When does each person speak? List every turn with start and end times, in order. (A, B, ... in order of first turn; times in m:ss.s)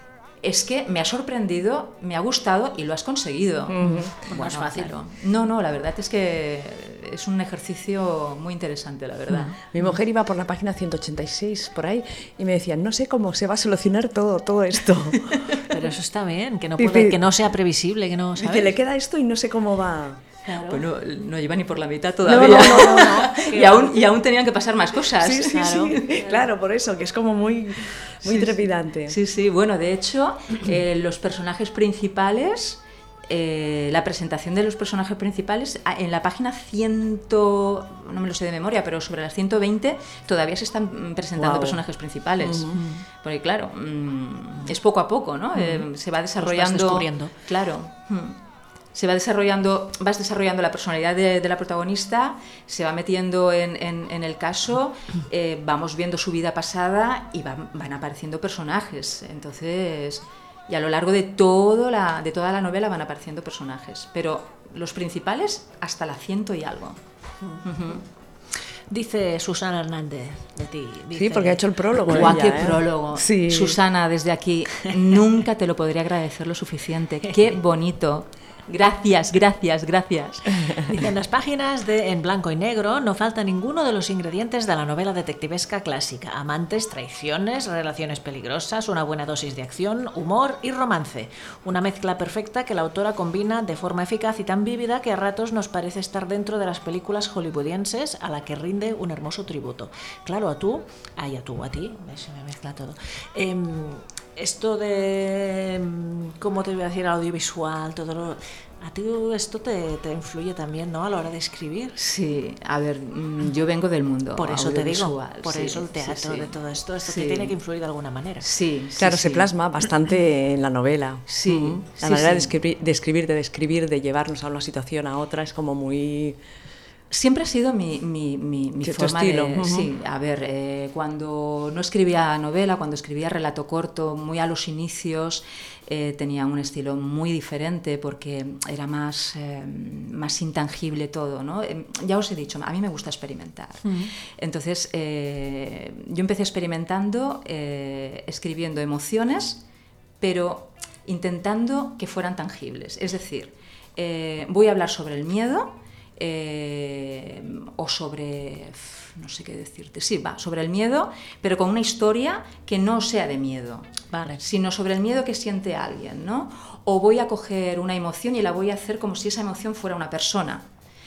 0:00.4-0:09.6 A
0:03.7-0:04.1 B
0:03.8-0:04.9 C
0:09.7-0:15.4 B
0:15.3-0:15.6 A
0:15.7-0:18.7 C
0:16.8-0:17.2 B
0:18.4-0:20.2 B
0:20.5-0:20.8 C
0:20.6-0:26.3 A
0:22.2-0:23.2 B
0:22.3-0:24.0 C
0:25.2-0:29.2 B
0:25.4-0:26.0 C
0:28.2-0:48.4 A
0:41.4-0:41.8 B
0:42.4-0:42.8 B
0:42.7-0:43.0 C
0:45.6-0:45.9 C
0:46.4-0:47.3 C
0:49.0-1:07.0 A
1:07.6-1:08.0 A
1:08.9-1:12.3 C
1:11.1-1:13.8 B
1:12.0-1:21.0 A
1:20.9-1:52.0 C
1:52.0-1:56.5 A
1:54.4-1:58.5 C
1:57.0-1:57.6 A
1:58.4-1:59.5 A
1:59.0-2:06.4 B
2:01.3-2:02.6 A
2:07.1-2:29.6 A
2:08.8-2:09.9 B
2:23.8-2:24.1 C
2:30.2-2:50.6 A
2:44.1-2:44.4 C